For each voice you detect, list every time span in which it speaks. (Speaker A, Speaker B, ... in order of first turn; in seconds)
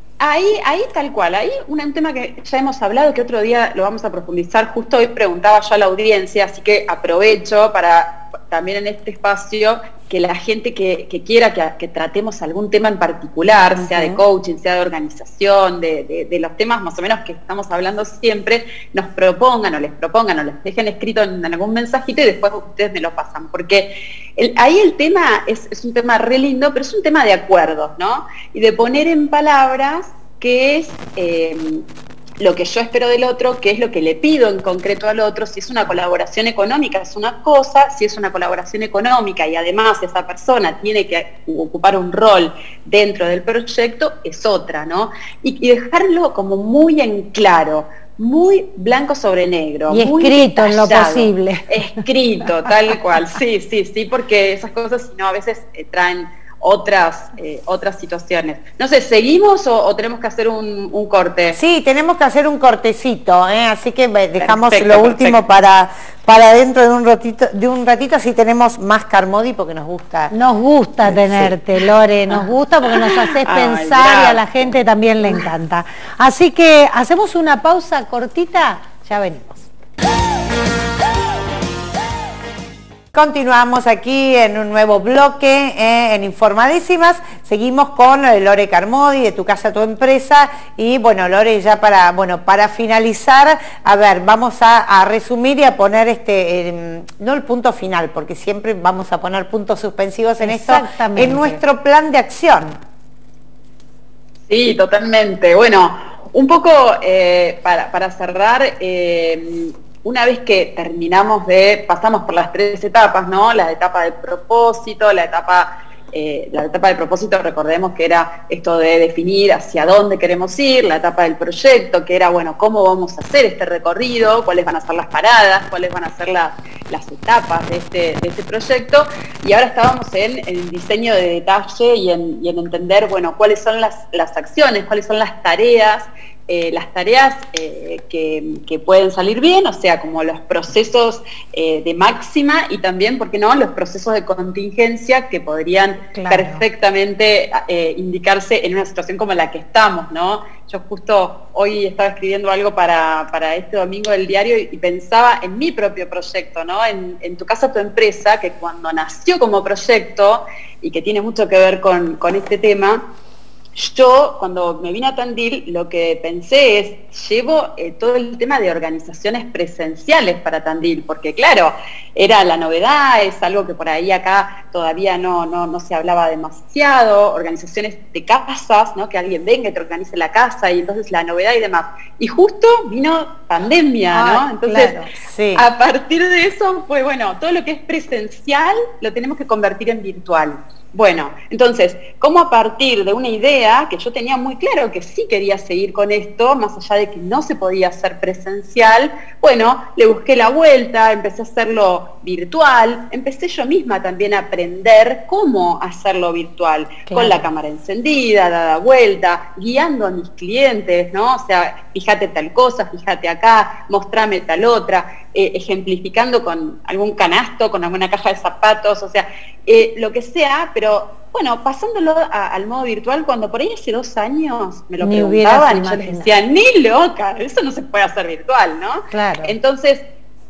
Speaker A: 0.2-31.8, 32.4-61.6, 64.4-65.4, 73.4-74.7, 104.5-163.1, 163.8-185.0, 185.6-230.1
Speaker B: 13.8-14.2, 61.5-70.3, 71.1-71.6, 83.1-102.8, 185.3-185.7
Speaker C: 49.9-51.8, 70.3-79.7, 100.4-101.6, 146.1-146.7, 184.1-185.1, 225.0-226.3, 229.1-229.5